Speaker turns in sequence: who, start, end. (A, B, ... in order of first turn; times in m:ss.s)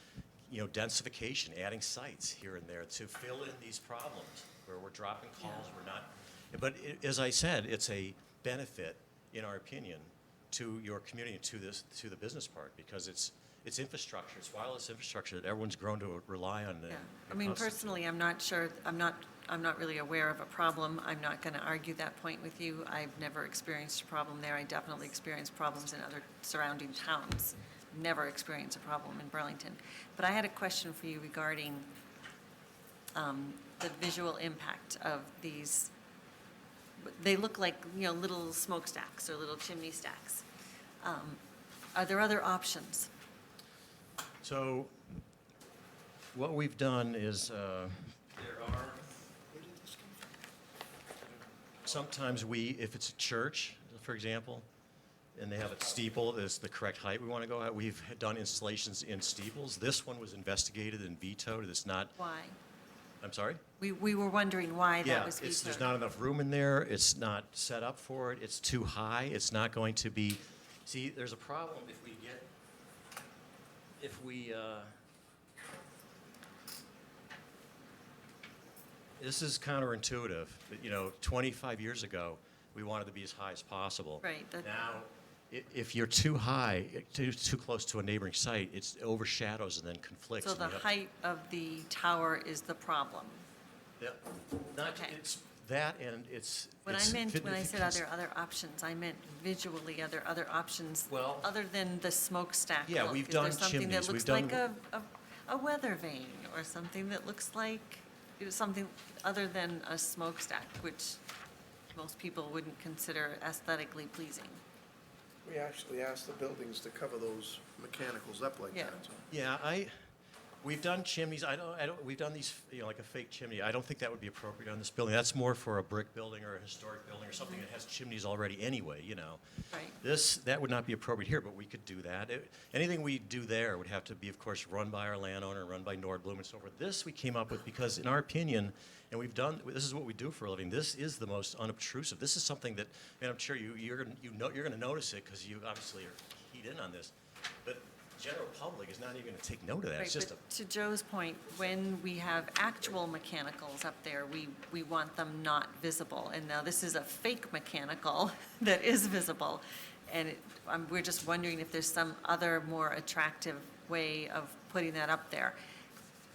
0:00.5-0:18.0 A
0:16.9-0:31.9 B
0:33.2-0:35.9 B
0:37.0-0:40.5 B
0:41.0-0:41.4 B
0:42.0-0:43.1 B
0:44.4-0:45.1 A
0:46.3-0:49.0 A
0:49.5-0:50.1 C
0:51.8-0:54.7 A
0:55.4-1:02.1 A
1:02.2-1:02.6 B
1:03.2-1:03.6 A
1:03.8-1:05.9 B
1:05.0-1:12.5 A
1:14.0-1:14.9 A
1:19.2-1:30.9 A
1:24.2-1:24.7 B
1:30.4-1:33.5 B
1:34.0-1:38.0 A
1:34.8-1:35.2 B
1:36.9-1:51.2 B
1:41.1-1:41.5 A
1:42.8-1:44.7 A
1:51.9-1:54.6 B
1:55.4-1:59.2 C
1:59.3-1:59.9 A
2:00.6-2:09.4 A
2:09.7-2:10.0 B
2:10.0-2:27.1 A
2:27.6-2:30.4 A
2:30.0-2:45.6 B